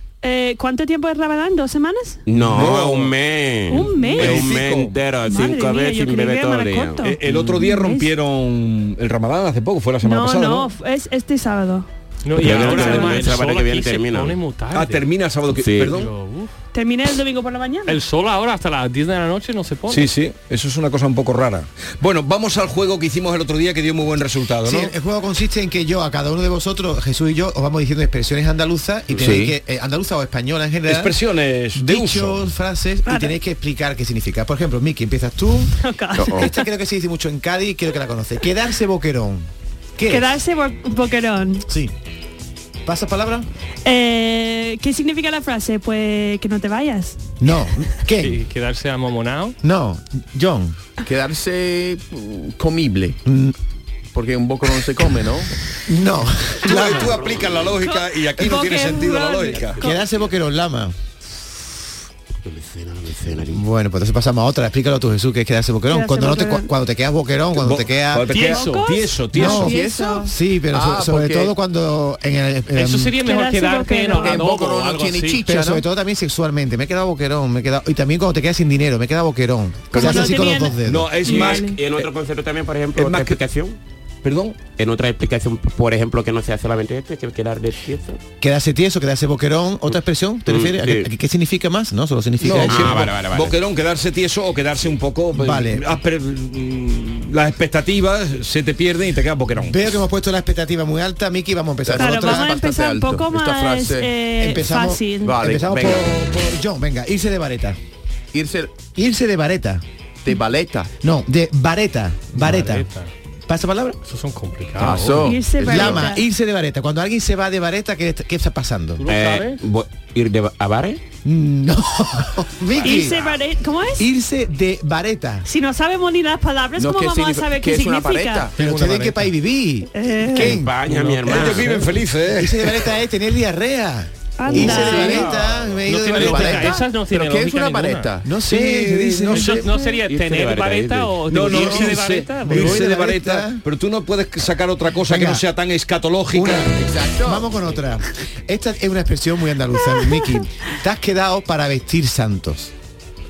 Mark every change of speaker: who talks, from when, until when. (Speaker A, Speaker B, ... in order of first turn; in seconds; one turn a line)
Speaker A: 0.2-2.2
Speaker B: 2.3-7.1
Speaker C: 2.4-3.1
Speaker A: 3.7-4.5
Speaker C: 3.7-5.0
Speaker A: 5.2-8.1
Speaker C: 7.0-10.7
Speaker A: 10.0-11.9
Speaker D: 12.2-15.1
Speaker B: 12.4-14.4
Speaker A: 12.4-13.3
Speaker C: 14.7-16.1
Speaker B: 15.5-15.9
Speaker D: 15.9-16.5
Speaker A: 16.7-18.0
Speaker D: 17.9-20.1
Speaker C: 19.9-24.9
Speaker E: 24.6-31.1
Speaker F: 29.2-29.6
Speaker C: 30.9-32.5
Speaker E: 31.8-35.7
Speaker A: 33.1-33.4
Speaker A: 35.8-36.7
Speaker F: 36.1-36.4
Speaker E: 36.3-40.4
Speaker A: 40.0-41.7
Speaker E: 41.7-41.9
Speaker E: 42.9-43.5
Speaker A: 43.9-47.2
Speaker E: 47.4-48.4
Speaker D: 48.2-49.6
Speaker E: 49.6-50.8
Speaker F: 51.1-53.2
Speaker E: 53.2-53.5
Speaker F: 54.1-55.5
Speaker E: 55.9-57.2
Speaker C: 56.6-59.8
Speaker A: 57.7-60.1
Speaker E: 59.8-61.0
Speaker B: 62.5-63.6
Speaker E: 63.5-68.3
Speaker A: 65.9-66.7
Speaker C: 67.6-69.8
Speaker A: 68.3-70.3
Speaker D: 68.4-68.8
Speaker F: 69.3-71.5
Speaker E: 69.4-73.2
Speaker D: 72.7-75.4
Speaker A: 73.2-74.5
Speaker F: 74.1-75.8
Speaker E: 75.4-81.1
Speaker F: 79.9-80.3
Speaker A: 79.9-81.8
Speaker C: 80.8-82.1
Speaker B: 81.3-83.8
Speaker C: 83.0-83.4
Speaker C: 84.2-84.6
Speaker B: 84.8-88.2
Speaker E: 88.4-93.1
Speaker B: 90.5-91.1
Speaker C: 92.4-99.8
Speaker B: 92.5-93.6
Speaker E: 95.3-96.0
Speaker E: 99.6-102.5
Speaker F: 101.9-104.2
Speaker A: 102.0-105.4
Speaker E: 104.4-107.8
Speaker F: 105.2-106.1
Speaker F: 108.3-108.7
Speaker E: 109.0-109.8
Speaker F: 110.2-110.9
Speaker E: 111.0-112.9
Speaker D: 112.3-113.1
Speaker E: 113.5-114.0
Speaker D: 114.0-115.4
Speaker F: 114.8-116.2
Speaker A: 115.2-116.3
Speaker E: 115.7-119.0
Speaker D: 119.0-119.6
Speaker B: 119.1-121.0
Speaker E: 121.2-123.2
Speaker B: 122.7-123.4
Speaker A: 122.8-124.1
Speaker E: 124.0-125.5
Speaker A: 125.5-128.5
Speaker F: 126.8-128.6
Speaker E: 128.6-130.8
Speaker D: 128.6-129.1
Speaker A: 129.9-130.6
Speaker B: 130.4-131.8
Speaker C: 131.1-132.8
Speaker E: 131.3-131.8
Speaker E: 132.3-136.8
Speaker A: 134.4-135.3
Speaker F: 134.6-138.3
Speaker D: 134.6-138.1
Speaker E: 138.2-139.7
Speaker C: 138.4-139.6
Speaker D: 139.3-142.9
Speaker A: 139.6-140.0
Speaker B: 140.1-141.2
Speaker C: 141.3-146.7
Speaker E: 141.4-143.6
Speaker E: 145.1-145.4
Speaker E: 146.3-152.7
Speaker F: 146.8-147.6
Speaker A: 149.9-150.2